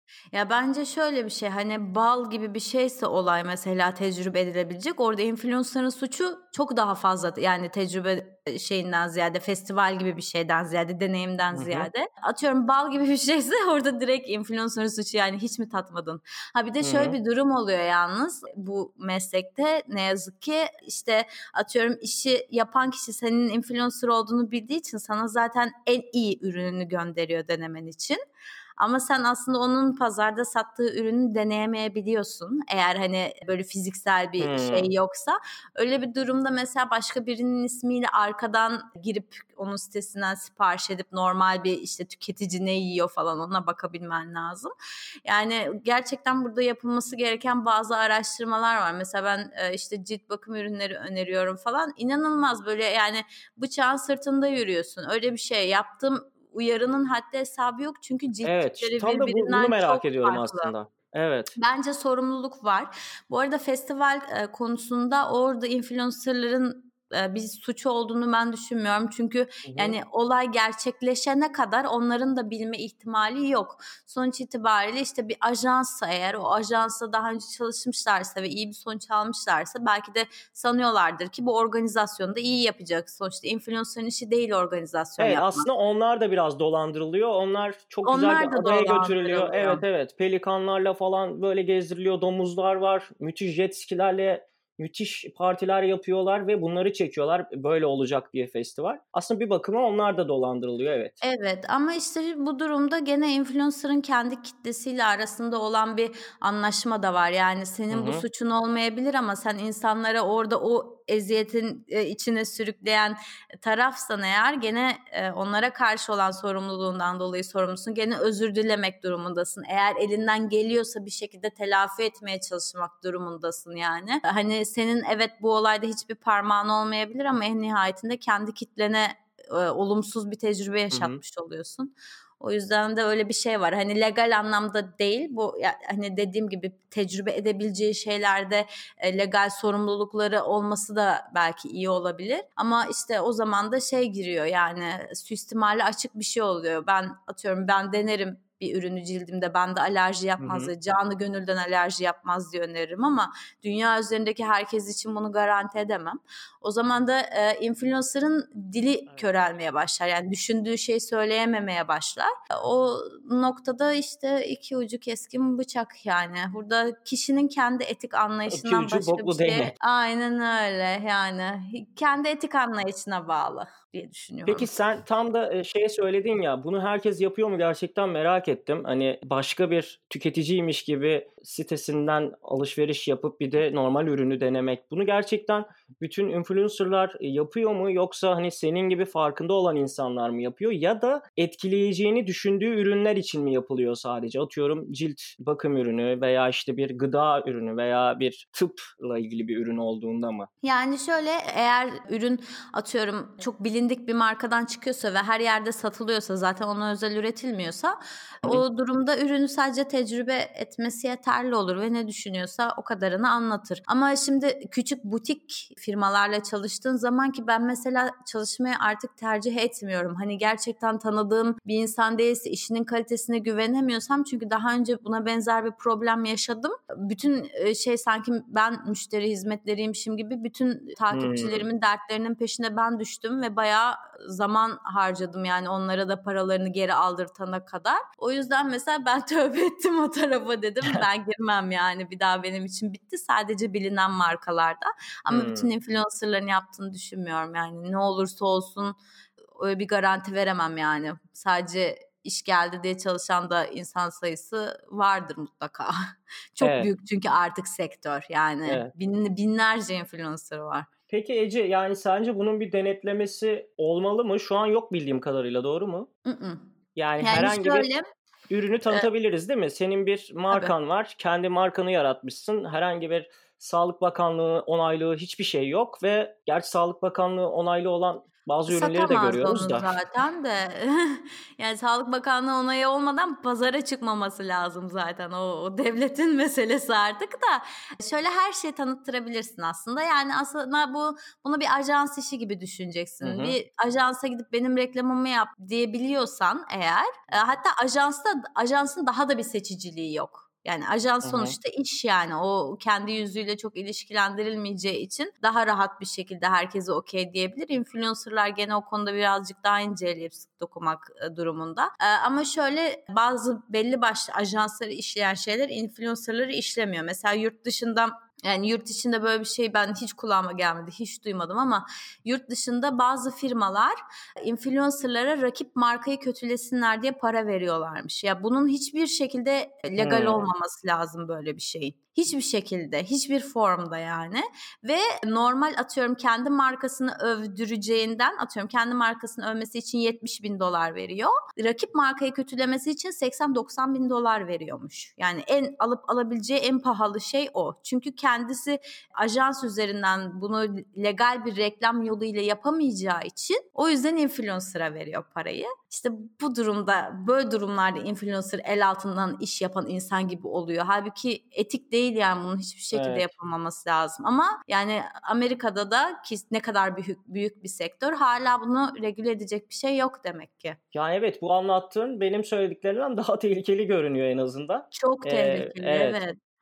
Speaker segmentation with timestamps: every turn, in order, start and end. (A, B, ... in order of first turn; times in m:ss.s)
0:00.3-0:28.2 A
0:11.5-0:11.9 B
0:16.8-0:17.2 B
0:28.8-0:44.7 A
0:34.4-0:34.9 B
0:45.2-1:00.7 A
0:58.4-1:01.5 B
1:01.6-1:25.7 A
1:09.6-1:10.0 B
1:25.2-1:41.2 B
1:28.0-1:29.8 A
1:41.2-2:54.7 A
1:47.9-1:48.2 B
2:10.9-2:11.2 B
2:30.4-2:30.7 B
2:48.5-2:49.7 B
2:54.4-3:20.5 B
3:20.6-4:09.0 A
3:51.1-3:51.6 B
4:05.3-4:05.7 B
4:09.6-4:15.9 A
4:16.6-4:20.9 A
4:16.6-4:16.9 B
4:21.1-4:26.1 B
4:26.2-4:26.6 A
4:27.0-4:27.9 B
4:27.2-4:28.0 A
4:28.5-4:39.9 B
4:38.7-6:10.8 A
4:53.2-4:53.6 B
5:01.2-5:01.6 B
5:30.0-5:30.5 B
6:02.9-6:03.3 B
6:10.9-6:16.2 B
6:14.9-6:16.4 A